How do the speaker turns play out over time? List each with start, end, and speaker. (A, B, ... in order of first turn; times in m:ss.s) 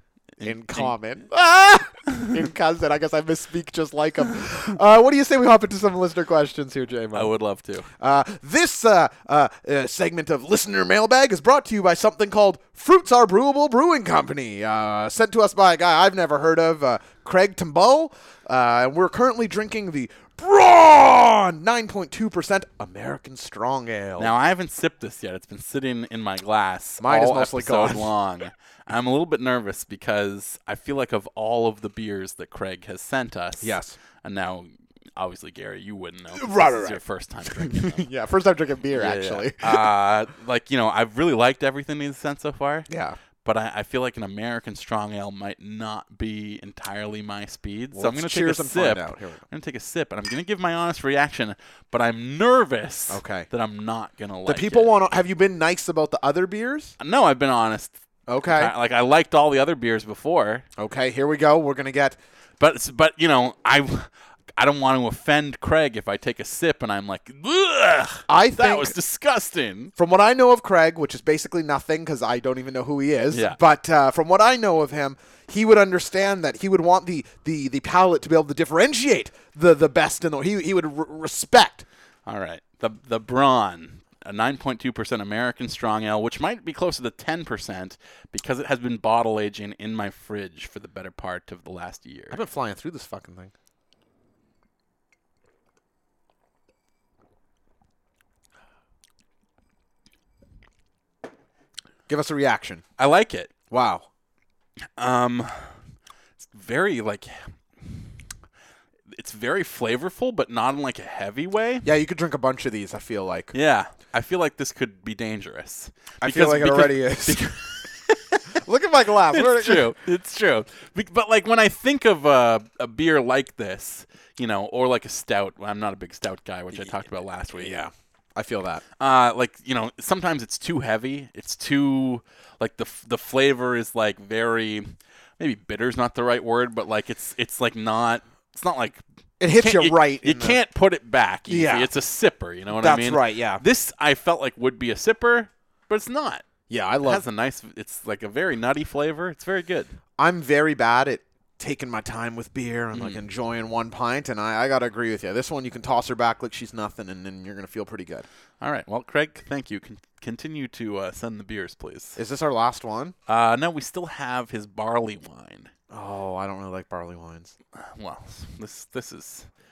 0:00.4-0:00.9 A
0:00.4-0:07.3 B
0:07.1-0:07.9 A
0:08.0-0:24.3 B
0:24.2-0:38.1 A
0:27.0-0:28.1 B
0:33.6-0:34.0 B
0:36.4-0:39.9 B
0:38.9-0:42.9 A
0:42.9-0:43.2 B
0:43.4-0:54.9 A
0:47.9-0:49.4 B
0:53.1-0:53.5 B
0:54.4-0:56.9 B
0:57.0-1:00.6 A
0:58.3-0:58.7 B
1:00.8-1:02.2 B
1:02.6-1:09.9 A
1:08.3-1:08.9 B
1:10.0-1:21.8 B
1:13.3-1:13.6 A
1:22.2-1:32.4 A
1:32.3-1:33.5 B
1:42.1-1:42.8 B
1:43.0-1:43.5 A
1:43.7-1:44.1 B
1:45.0-1:45.7 A
1:46.4-1:48.0 A
1:49.1-1:51.9 A
1:51.8-1:53.5 B
1:53.5-1:58.5 A
1:56.2-1:57.5 B
1:58.5-1:59.9 B
1:59.3-2:07.7 A
2:07.5-2:08.8 B
2:09.0-2:26.4 A
2:19.4-2:20.6 B
2:21.5-2:21.9 B
2:22.7-2:23.6 B
2:26.7-2:27.2 B
2:27.0-2:29.9 A
2:30.2-2:38.2 B
2:32.9-2:33.2 A
2:38.6-2:42.2 A
2:42.2-2:43.1 B
2:43.3-2:45.7 A
2:45.9-2:47.5 B
2:47.7-2:49.5 A